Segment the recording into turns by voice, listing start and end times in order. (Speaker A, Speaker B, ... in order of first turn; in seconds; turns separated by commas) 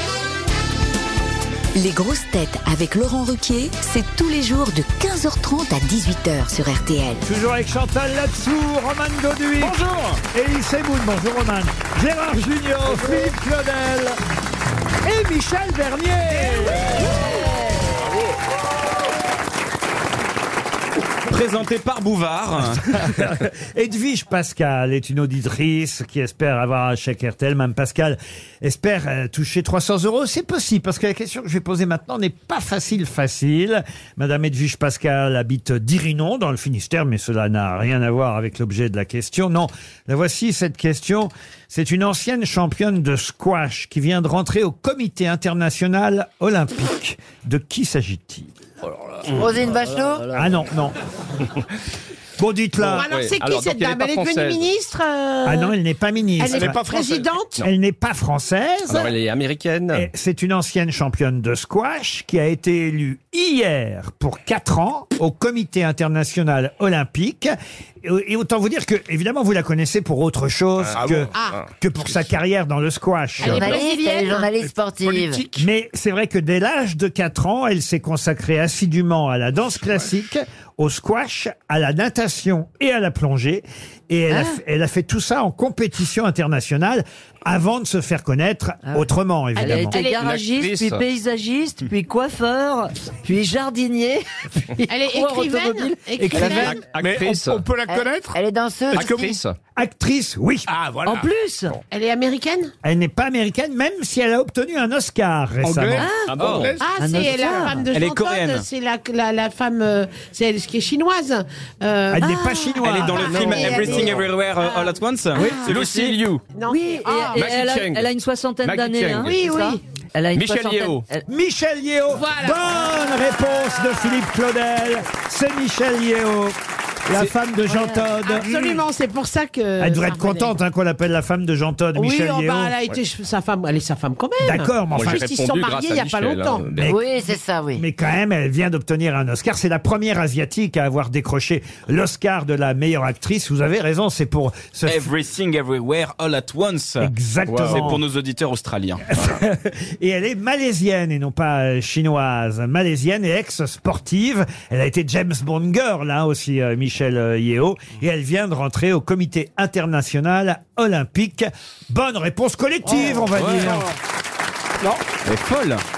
Speaker A: 1.8-7.2, Speaker B: 7.2-9.8, Speaker C: 9.6-10.2, Speaker B: 10.3-14.2, Speaker B: 15.0-17.1, Speaker C: 21.3-23.1, Speaker B: 22.7-48.5, Speaker D: 49.3-50.4, Speaker E: 49.9-50.3, Speaker B: 50.3-51.0, Speaker B: 52.4-53.1, Speaker F: 52.9-55.8, Speaker G: 53.0-54.7, Speaker B: 55.5-56.8, Speaker F: 56.4-57.6, Speaker H: 56.4-57.4, Speaker B: 57.6-59.1, Speaker G: 58.9-60.1, Speaker B: 59.9-73.8, Speaker G: 70.8-71.7, Speaker H: 70.9-71.3, Speaker F: 73.4-74.5, Speaker D: 73.4-75.4, Speaker H: 74.5-75.7, Speaker B: 75.6-90.0, Speaker H: 79.8-80.1, Speaker E: 89.6-96.7, Speaker F: 89.6-90.3, Speaker G: 90.2-91.0, Speaker F: 94.9-96.8, Speaker B: 96.2-96.7, Speaker G: 96.4-97.7, Speaker H: 96.4-98.4, Speaker D: 97.9-99.1, Speaker H: 98.9-99.4, Speaker G: 98.9-99.6, Speaker B: 99.8-100.7, Speaker H: 100.7-101.3, Speaker E: 101.1-101.8, Speaker F: 101.9-102.7, Speaker B: 102.8-106.1, Speaker H: 105.6-107.0, Speaker E: 106.0-106.4, Speaker C: 106.3-106.7, Speaker F: 106.8-117.5, Speaker E: 107.0-107.8, Speaker C: 107.9-108.7, Speaker B: 112.1-114.1, Speaker C: 112.8-116.4, Speaker E: 115.4-115.8, Speaker E: 116.7-121.2, Speaker C: 117.3-118.1, Speaker C: 118.6-119.3, Speaker F: 119.2-119.8, Speaker C: 120.3-121.0, Speaker B: 121.3-128.8, Speaker F: 122.1-123.3, Speaker F: 127.7-130.6, Speaker B: 129.8-132.8, Speaker F: 131.9-136.7, Speaker B: 134.4-135.2, Speaker G: 134.9-137.0, Speaker B: 136.8-137.0, Speaker D: 136.8-137.8, Speaker B: 137.8-145.1, Speaker C: 144.8-149.0, Speaker B: 147.0-148.0, Speaker B: 149.1-163.9, Speaker C: 163.3-163.8, Speaker C: 165.2-165.8